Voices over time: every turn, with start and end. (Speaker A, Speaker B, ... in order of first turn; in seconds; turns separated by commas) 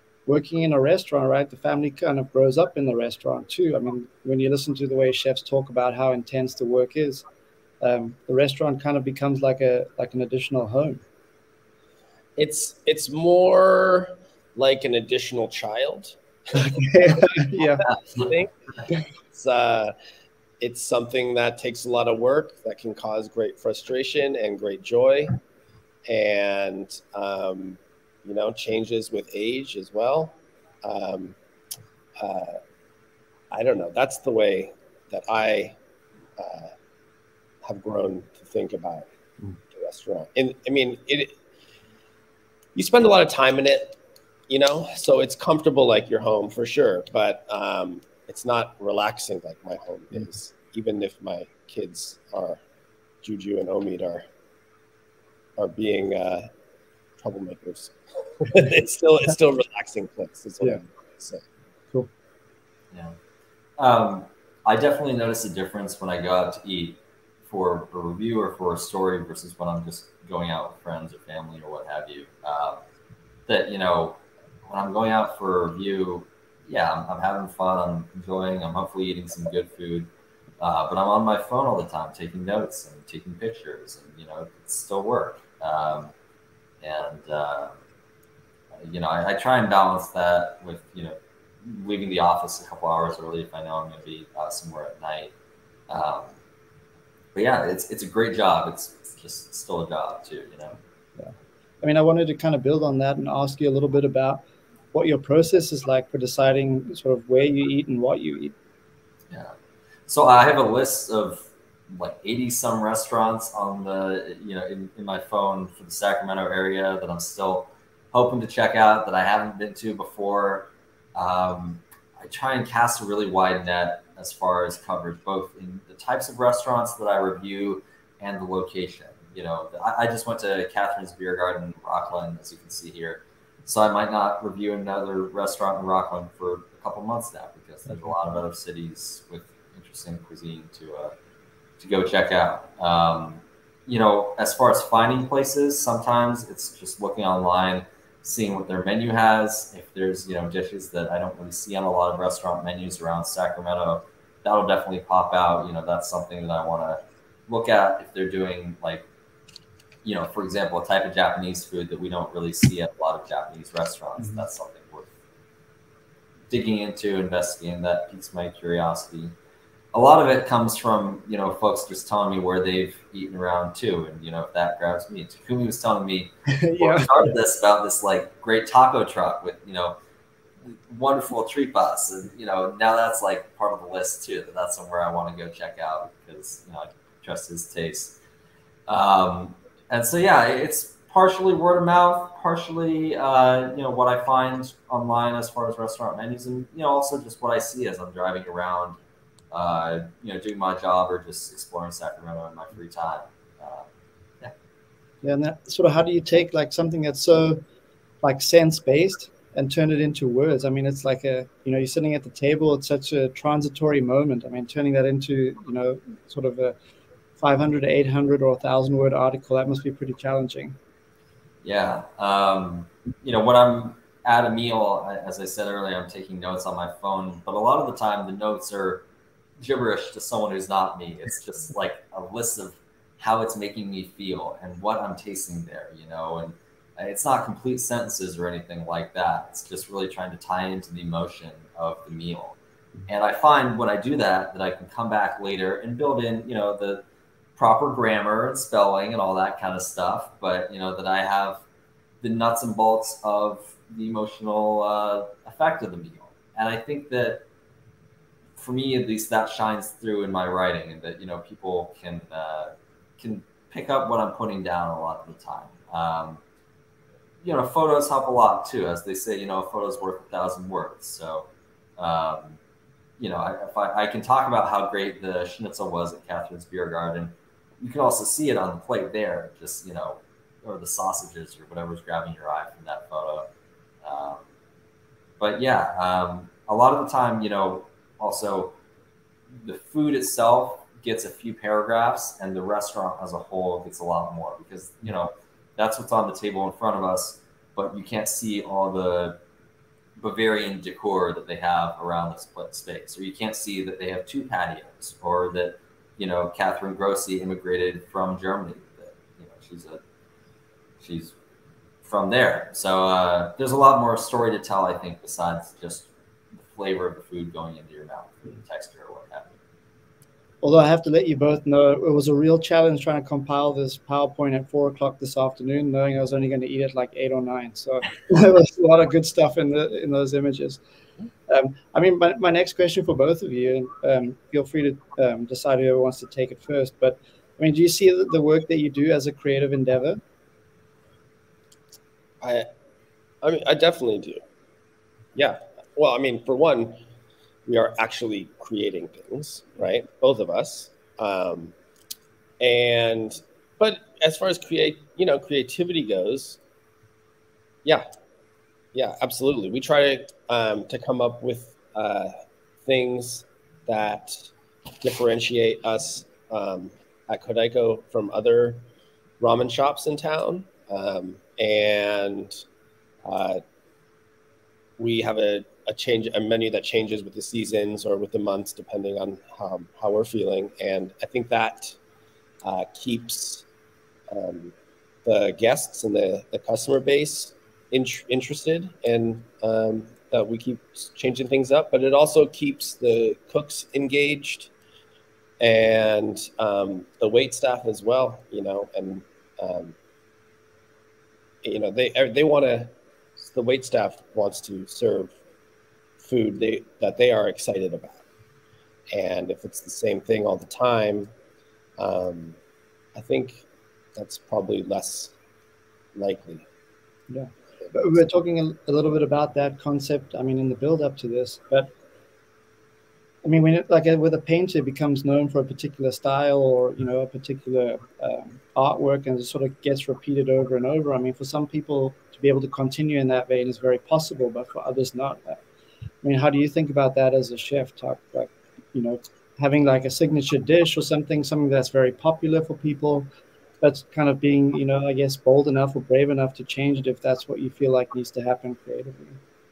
Speaker A: 0.3-7.2, Speaker A: 7.8-11.0, Speaker B: 12.4-16.2, Speaker A: 16.5-17.9, Speaker B: 16.9-18.5, Speaker B: 19.3-19.9, Speaker B: 20.6-25.4, Speaker B: 26.1-31.4, Speaker B: 32.2-32.6, Speaker B: 33.5-35.8, Speaker B: 36.4-36.7, Speaker B: 37.6-39.1, Speaker B: 39.7-41.4, Speaker B: 42.8-44.0, Speaker B: 44.5-52.6, Speaker B: 53.2-54.2, Speaker B: 55.6-56.5, Speaker B: 57.2-61.4, Speaker C: 63.8-72.8, Speaker C: 73.5-80.1, Speaker C: 80.6-86.1, Speaker C: 86.8-87.8, Speaker C: 88.7-95.3, Speaker C: 95.9-96.3, Speaker C: 97.3-100.8, Speaker A: 101.2-108.5, Speaker C: 110.1-141.1, Speaker C: 141.8-159.1, Speaker C: 160.0-165.1, Speaker C: 166.5-169.3, Speaker C: 169.9-180.0, Speaker A: 176.5-177.3, Speaker C: 180.7-188.2, Speaker C: 188.9-199.0, Speaker C: 199.5-203.9, Speaker A: 205.2-207.6, Speaker A: 208.2-216.8, Speaker A: 217.4-220.8, Speaker C: 221.6-229.1, Speaker C: 229.6-242.6, Speaker C: 243.1-247.0, Speaker C: 247.6-251.6, Speaker C: 252.2-257.4, Speaker C: 258.6-266.4, Speaker C: 267.4-272.6, Speaker C: 273.2-283.5, Speaker C: 284.0-284.5, Speaker C: 285.4-288.8, Speaker C: 289.6-299.4, Speaker C: 300.2-310.0, Speaker C: 311.0-311.4, Speaker C: 312.0-316.1, Speaker C: 316.6-319.6, Speaker A: 320.6-330.8, Speaker A: 331.5-340.2, Speaker B: 342.4-342.7, Speaker B: 343.4-344.4, Speaker B: 345.4-347.1, Speaker B: 347.7-351.8, Speaker B: 352.6-356.6, Speaker B: 358.9-362.3, Speaker B: 362.9-368.8, Speaker B: 369.4-372.6, Speaker B: 373.2-373.6, Speaker B: 375.0-382.0, Speaker B: 382.6-383.7, Speaker B: 384.3-384.7, Speaker B: 385.2-394.7, Speaker B: 395.6-400.0, Speaker B: 401.6-405.4, Speaker B: 406.2-408.2, Speaker B: 409.1-411.3, Speaker B: 412.0-412.6, Speaker B: 413.1-413.6, Speaker B: 414.2-415.3, Speaker B: 416.1-416.7, Speaker A: 417.3-421.9, Speaker B: 417.8-418.2, Speaker A: 423.4-435.6, Speaker A: 436.2-443.3, Speaker A: 443.8-449.4